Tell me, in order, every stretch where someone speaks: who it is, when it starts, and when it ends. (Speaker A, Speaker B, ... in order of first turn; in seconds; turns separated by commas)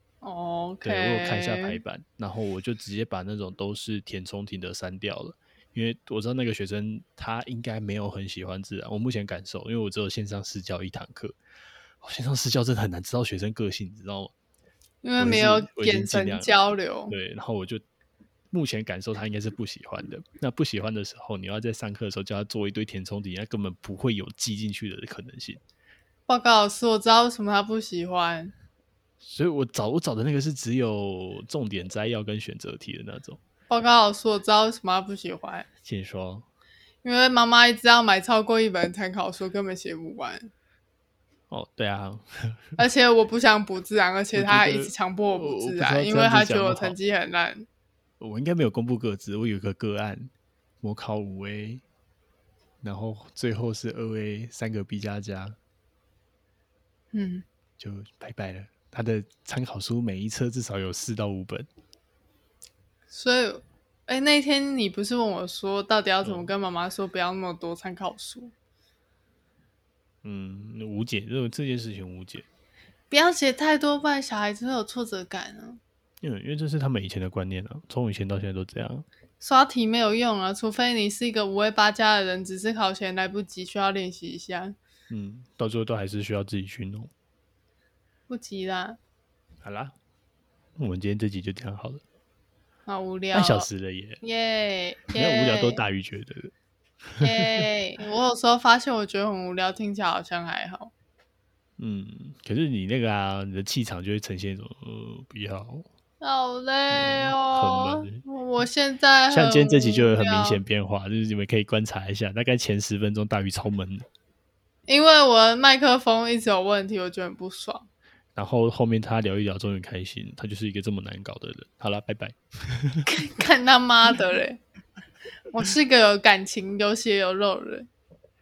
Speaker A: 0.2-1.8, Speaker B: 0.8-11.4, Speaker B: 12.0-14.3, Speaker A: 15.0-17.2, Speaker B: 15.2-16.5, Speaker B: 17.1-17.8, Speaker B: 18.5-25.6, Speaker A: 26.3-28.5, Speaker B: 29.2-33.4, Speaker A: 33.7-35.7, Speaker B: 35.9-36.5, Speaker A: 37.0-40.5, Speaker B: 41.5-42.8, Speaker A: 42.8-47.7, Speaker B: 44.3-47.0, Speaker B: 48.2-50.3, Speaker B: 50.8-51.8, Speaker B: 52.8-55.6, Speaker A: 57.1-57.5, Speaker B: 57.8-61.7, Speaker A: 63.1-68.5, Speaker B: 66.2-66.5, Speaker B: 70.2-72.5, Speaker A: 73.1-75.8, Speaker B: 76.2-79.1, Speaker A: 79.4-84.8, Speaker B: 85.1-87.1, Speaker A: 88.3-89.0, Speaker B: 89.6-90.0, Speaker B: 90.8-92.0, Speaker A: 92.9-93.7, Speaker B: 93.3-94.2, Speaker A: 94.2-95.8, Speaker B: 95.2-96.5, Speaker B: 97.1-97.7, Speaker A: 97.2-100.9, Speaker B: 101.8-105.9, Speaker A: 106.2-110.6, Speaker B: 106.9-108.2, Speaker B: 109.3-114.1, Speaker A: 114.9-117.9, Speaker B: 118.3-123.1, Speaker A: 123.1-124.6, Speaker A: 125.5-127.9